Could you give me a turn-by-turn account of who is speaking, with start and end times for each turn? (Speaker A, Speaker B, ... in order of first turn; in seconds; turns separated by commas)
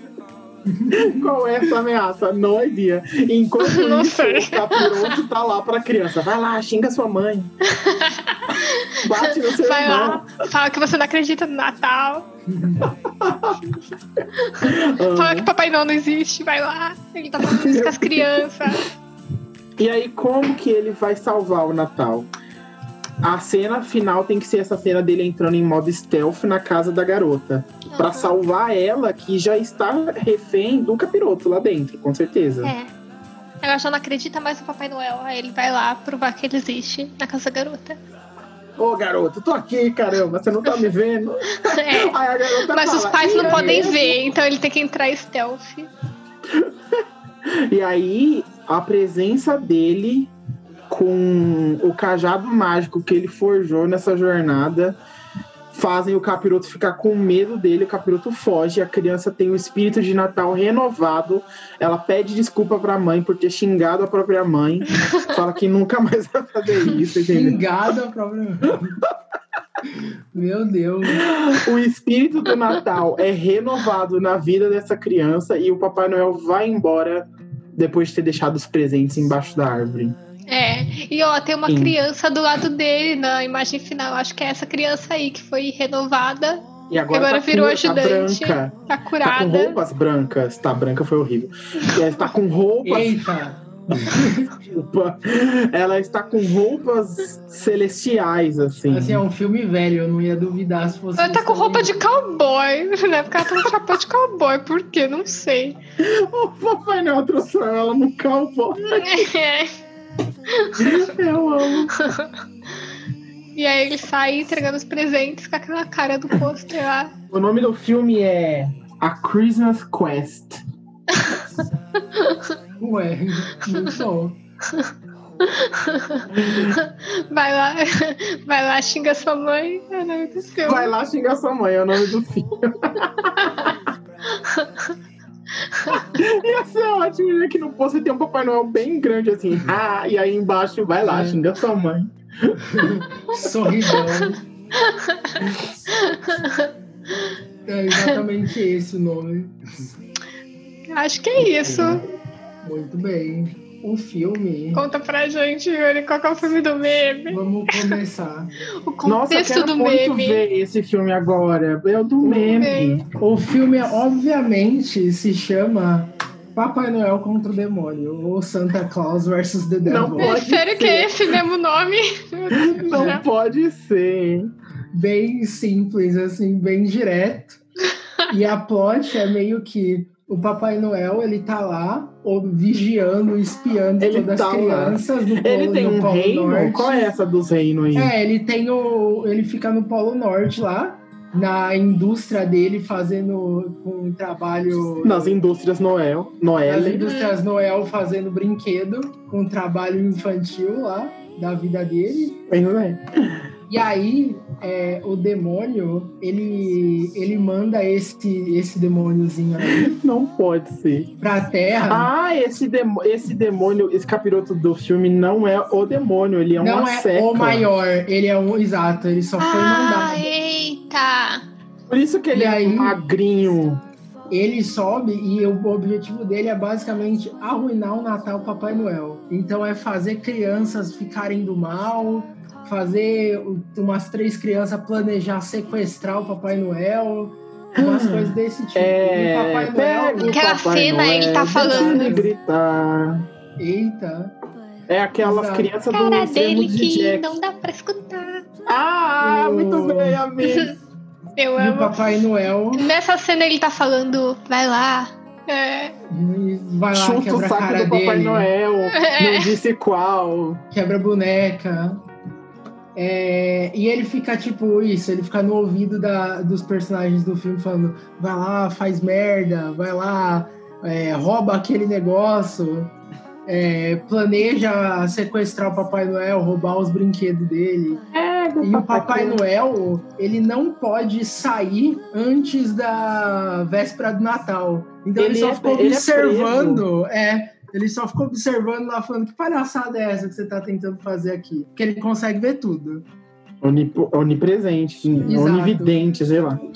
Speaker A: 0.7-1.3, Speaker B: 0.9-7.5, Speaker C: 3.6-5.2, Speaker C: 7.6-12.3, Speaker B: 9.0-10.3, Speaker A: 12.5-12.9, Speaker B: 12.8-13.6, Speaker C: 14.4-18.8, Speaker B: 14.5-15.5, Speaker B: 17.4-18.8, Speaker B: 19.8-22.3, Speaker B: 23.2-32.7, Speaker C: 27.9-28.4, Speaker C: 32.6-32.9, Speaker C: 33.6-38.0, Speaker B: 38.8-44.2, Speaker C: 41.5-45.9, Speaker B: 46.5-50.3, Speaker B: 50.9-55.0, Speaker B: 55.7-67.6, Speaker A: 67.3-69.0, Speaker A: 69.8-71.3, Speaker B: 71.1-80.2, Speaker C: 80.5-89.8, Speaker B: 81.7-82.0, Speaker B: 86.9-93.2, Speaker A: 92.8-94.5, Speaker B: 94.0-99.2, Speaker A: 98.9-102.0, Speaker C: 101.2-105.8, Speaker B: 106.0-109.3, Speaker C: 108.9-109.8, Speaker C: 110.5-111.1, Speaker B: 110.8-111.9, Speaker C: 111.9-112.3, Speaker C: 113.5-117.1, Speaker B: 117.3-120.6, Speaker C: 121.1-121.4, Speaker C: 122.1-122.5, Speaker A: 122.8-124.4, Speaker C: 124.7-130.9, Speaker B: 126.3-126.8, Speaker B: 130.6-133.7, Speaker C: 133.4-133.7, Speaker C: 134.3-134.9, Speaker C: 135.6-136.0, Speaker B: 135.9-143.0, Speaker A: 141.0-141.4, Speaker A: 142.6-144.4, Speaker C: 143.9-147.3, Speaker A: 147.7-149.9, Speaker C: 150.9-152.0, Speaker B: 151.4-152.0, Speaker A: 152.6-154.8, Speaker C: 154.7-158.0, Speaker A: 157.3-158.5, Speaker C: 158.8-160.4, Speaker B: 159.0-163.0, Speaker A: 162.2-170.4, Speaker C: 162.5-163.0, Speaker B: 169.8-171.3, Speaker C: 170.2-173.2, Speaker B: 172.5-174.5, Speaker A: 172.9-173.2, Speaker A: 174.9-177.6, Speaker A: 178.3-187.0, Speaker B: 184.0-188.1, Speaker A: 187.9-195.4, Speaker B: 195.0-197.1, Speaker A: 196.6-202.4, Speaker C: 197.0-197.4, Speaker B: 202.5-203.5, Speaker A: 203.7-209.9, Speaker B: 209.6-211.1, Speaker A: 211.2-212.1, Speaker B: 211.9-217.7, Speaker A: 216.6-220.3, Speaker C: 219.4-221.4, Speaker B: 221.9-223.8, Speaker A: 222.3-223.0, Speaker A: 224.3-240.4, Speaker B: 237.8-243.2, Speaker C: 240.2-242.2, Speaker A: 241.5-242.3, Speaker A: 243.6-244.3, Speaker B: 244.9-247.3, Speaker A: 245.2-245.7, Speaker C: 245.9-248.4, Speaker B: 248.7-250.7, Speaker A: 249.2-250.2, Speaker C: 250.4-250.7, Speaker C: 251.4-252.0, Speaker A: 251.6-252.9, Speaker C: 252.7-255.9, Speaker A: 256.1-258.5, Speaker B: 256.9-260.6, Speaker C: 258.9-259.6, Speaker A: 260.7-262.0, Speaker A: 262.9-272.9, Speaker A: 273.4-278.0, Speaker B: 278.1-279.4, Speaker A: 278.6-293.0, Speaker B: 285.2-286.9, Speaker B: 293.6-296.6, Speaker A: 295.2-296.0